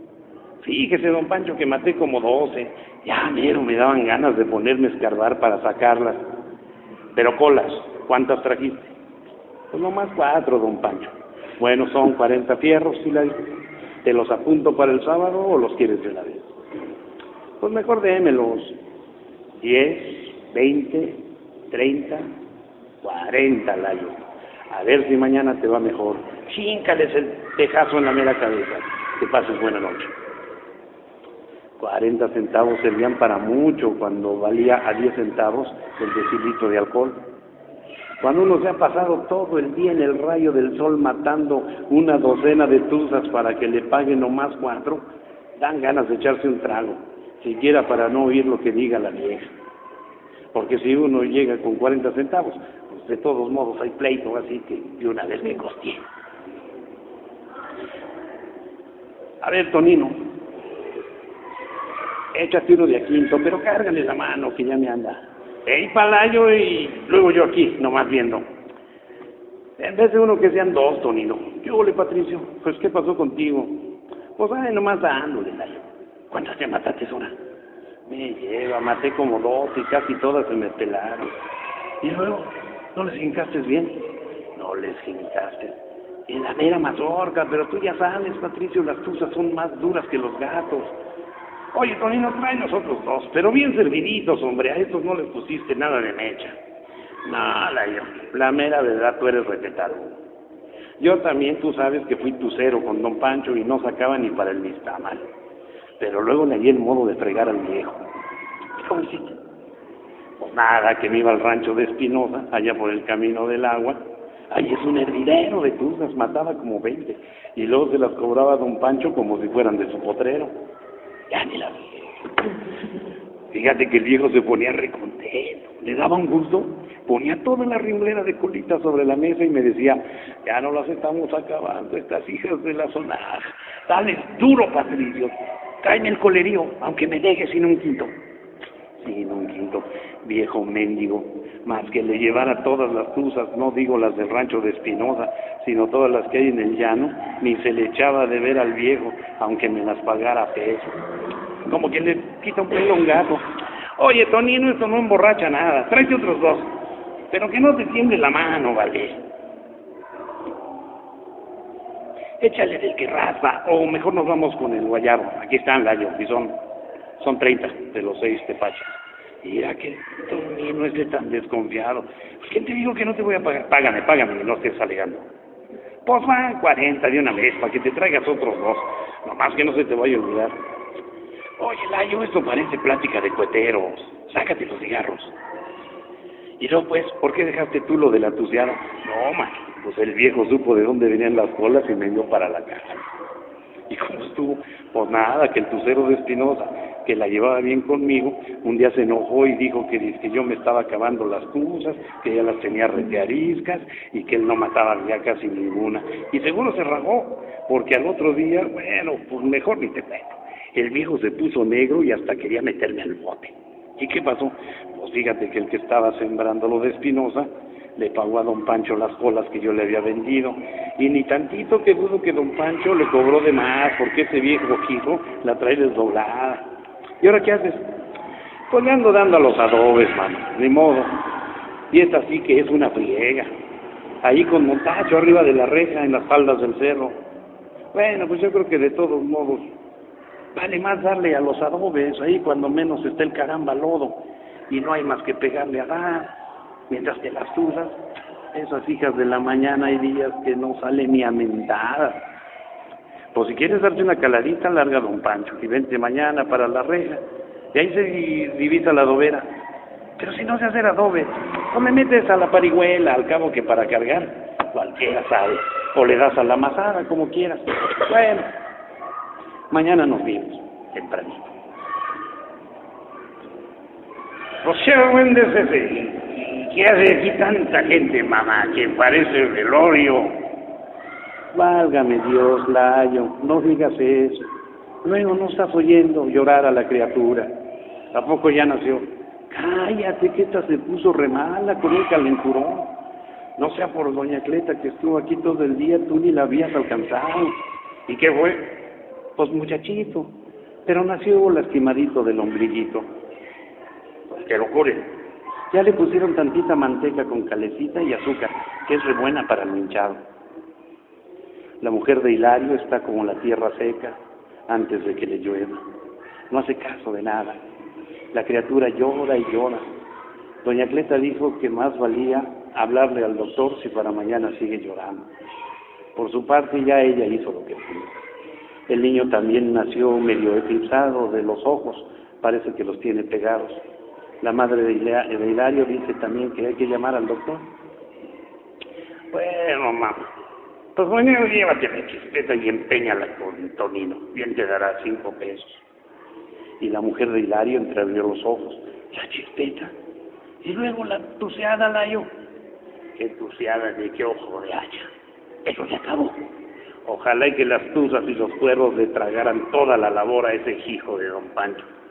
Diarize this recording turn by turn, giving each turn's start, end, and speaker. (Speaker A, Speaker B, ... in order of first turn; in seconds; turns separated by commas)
Speaker A: 0.6-6.2, Speaker A: 7.1-8.9, Speaker A: 9.7-13.4, Speaker A: 14.0-16.5, Speaker A: 17.6-18.8, Speaker A: 19.6-22.3, Speaker A: 23.0-30.1, Speaker A: 31.8-37.2, Speaker A: 38.2-45.1, Speaker A: 45.6-49.5, Speaker A: 50.5-56.0, Speaker A: 59.4-60.2, Speaker A: 62.3-68.4, Speaker A: 69.8-77.3, Speaker A: 78.1-81.3, Speaker A: 82.0-85.8, Speaker A: 86.3-90.9, Speaker A: 91.7-96.6, Speaker A: 97.2-100.2, Speaker A: 101.0-105.2, Speaker A: 106.0-108.0, Speaker A: 108.8-109.4, Speaker A: 110.4-114.0, Speaker A: 114.5-120.5, Speaker A: 121.3-122.2, Speaker A: 123.5-138.1, Speaker A: 139.0-151.0, Speaker A: 151.7-153.4, Speaker A: 154.0-156.7, Speaker A: 157.3-159.2, Speaker A: 162.4-166.6, Speaker A: 167.2-175.2, Speaker A: 176.1-180.6, Speaker A: 181.6-185.3, Speaker A: 186.6-193.1, Speaker A: 193.9-226.6, Speaker A: 227.2-227.9, Speaker A: 228.7-231.1, Speaker A: 231.9-233.5, Speaker A: 234.2-237.2, Speaker A: 237.9-239.7, Speaker A: 240.6-246.3, Speaker A: 246.9-248.0, Speaker A: 248.5-252.3, Speaker A: 253.3-257.2, Speaker A: 257.7-259.4, Speaker A: 260.2-268.5, Speaker A: 269.7-271.5, Speaker A: 274.6-280.4, Speaker A: 281.5-284.5, Speaker A: 285.0-287.5, Speaker A: 288.1-292.9, Speaker A: 293.6-297.5, Speaker A: 298.1-298.9, Speaker A: 299.4-300.3, Speaker A: 300.9-303.1, Speaker A: 304.3-305.2, Speaker A: 305.7-310.2, Speaker A: 311.8-315.8, Speaker A: 316.5-317.6, Speaker A: 318.3-319.9, Speaker A: 320.6-325.3, Speaker A: 326.1-328.2, Speaker A: 328.9-333.8, Speaker A: 334.4-337.7, Speaker A: 339.3-340.3, Speaker A: 341.0-345.8, Speaker A: 346.8-349.9, Speaker A: 350.6-352.3, Speaker A: 353.1-355.1, Speaker A: 355.6-356.5, Speaker A: 357.0-361.9